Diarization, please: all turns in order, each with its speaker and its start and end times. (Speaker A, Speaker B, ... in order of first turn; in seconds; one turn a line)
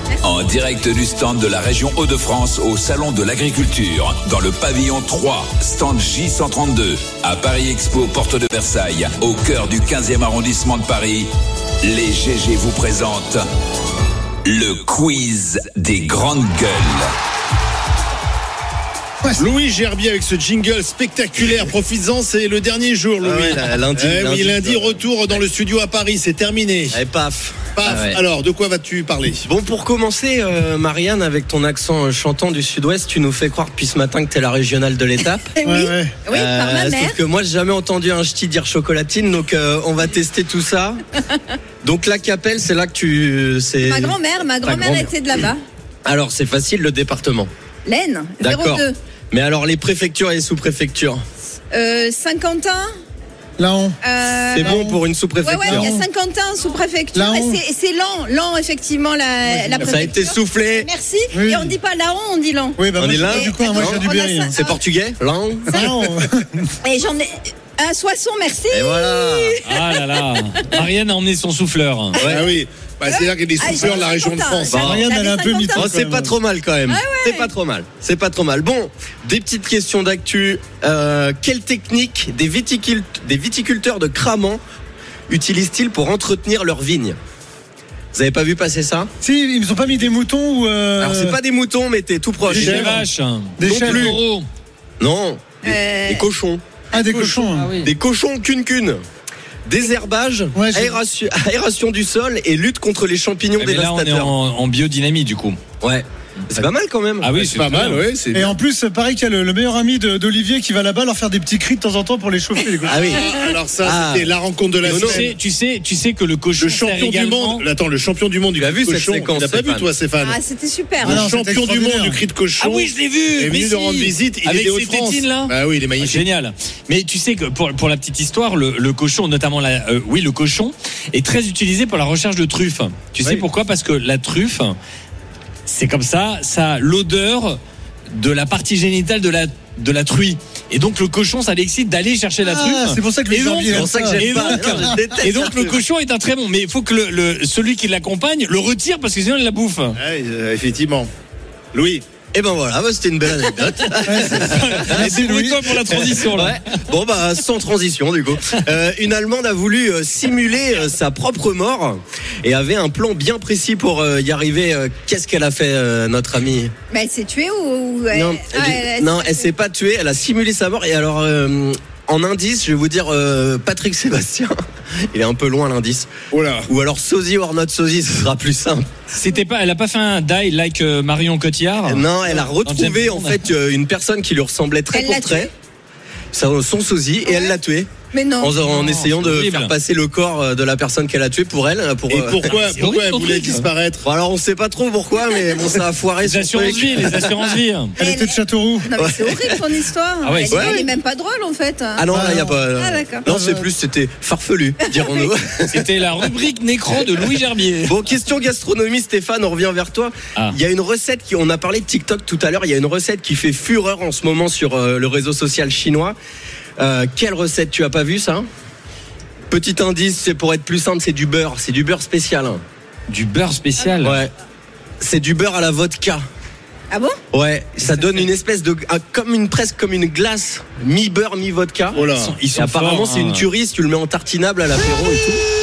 Speaker A: 0.2-11.3
Speaker A: 11.8-13.4
Speaker A: 14.4-17.1
Speaker B: 19.4-27.0
Speaker C: 23.2-25.4
Speaker C: 26.9-28.2
Speaker B: 27.8-29.4
Speaker C: 29.4-35.5
Speaker D: 35.5-37.2
Speaker E: 35.6-36.2
Speaker C: 36.3-41.0
Speaker C: 41.8-45.5
Speaker D: 43.8-45.6
Speaker C: 46.0-47.5
Speaker D: 47.9-49.0
Speaker C: 48.4-51.2
Speaker D: 51.7-52.9
Speaker E: 53.6-54.0
Speaker D: 54.0-54.8
Speaker C: 54.5-56.0
Speaker E: 54.6-56.1
Speaker D: 55.4-64.6
Speaker E: 57.1-57.6
Speaker E: 59.5-59.8
Speaker C: 59.8-60.9
Speaker E: 61.3-61.8
Speaker E: 62.8-64.6
Speaker C: 63.0-66.0
Speaker E: 65.8-66.7
Speaker D: 66.8-70.0
Speaker C: 68.7-69.6
Speaker F: 69.7-72.2
Speaker C: 72.2-72.5
Speaker B: 72.2-74.9
Speaker D: 73.1-76.0
Speaker C: 74.7-75.0
Speaker E: 74.8-76.4
Speaker C: 75.7-84.6
Speaker D: 76.9-77.5
Speaker C: 85.3-87.2
Speaker C: 88.1-89.1
Speaker E: 89.2-91.4
Speaker C: 91.0-93.0
Speaker B: 92.5-93.0
Speaker F: 92.5-94.5
Speaker E: 93.6-94.2
Speaker C: 93.6-94.2
Speaker C: 95.0-96.6
Speaker D: 95.6-96.3
Speaker E: 96.9-97.8
Speaker F: 97.0-97.9
Speaker C: 97.8-99.0
Speaker C: 99.7-104.3
Speaker E: 100.5-101.0
Speaker F: 103.6-105.6
Speaker C: 105.8-107.3
Speaker F: 107.2-108.1
Speaker B: 107.4-108.5
Speaker E: 108.3-113.0
Speaker C: 112.9-113.3
Speaker B: 113.0-115.3
Speaker C: 113.8-114.3
Speaker C: 114.8-115.2
Speaker F: 115.0-117.7
Speaker B: 116.6-120.4
Speaker C: 118.6-119.9
Speaker D: 120.2-121.2
Speaker B: 121.0-126.3
Speaker E: 121.0-122.2
Speaker F: 122.6-134.8
Speaker F: 135.7-137.6
Speaker F: 138.1-150.0
Speaker E: 142.4-145.2
Speaker C: 143.7-145.8
Speaker B: 150.0-151.1
Speaker B: 151.7-152.0
Speaker C: 152.3-155.1
Speaker E: 154.1-155.7
Speaker F: 154.4-156.6
Speaker C: 155.9-166.7
Speaker D: 166.9-169.5
Speaker C: 168.1-174.6
Speaker C: 175.1-176.1
Speaker B: 176.3-176.7
Speaker C: 176.7-178.9
Speaker F: 179.1-183.5
Speaker C: 181.9-185.5
Speaker D: 184.9-185.5
Speaker C: 186.3-192.6
Speaker D: 187.2-187.6
Speaker D: 188.1-188.7
Speaker F: 188.6-189.7
Speaker B: 192.1-194.1
Speaker F: 192.4-193.7
Speaker C: 194.0-197.6
Speaker F: 196.2-198.0
Speaker E: 198.0-198.9
Speaker D: 198.0-202.1
Speaker C: 198.9-199.7
Speaker F: 200.2-200.8
Speaker C: 200.4-200.9
Speaker C: 202.0-205.8
Speaker E: 202.1-202.7
Speaker D: 202.8-203.3
Speaker E: 203.3-203.7
Speaker D: 204.9-205.3
Speaker F: 205.7-207.9
Speaker C: 207.8-216.2
Speaker C: 216.8-218.5
Speaker C: 219.5-222.6
Speaker F: 223.1-224.2
Speaker C: 224.0-224.3
Speaker C: 225.0-226.2
Speaker D: 226.9-227.2
Speaker C: 227.3-232.0
Speaker F: 227.8-228.3
Speaker B: 231.9-232.4
Speaker F: 231.9-233.5
Speaker C: 232.5-235.4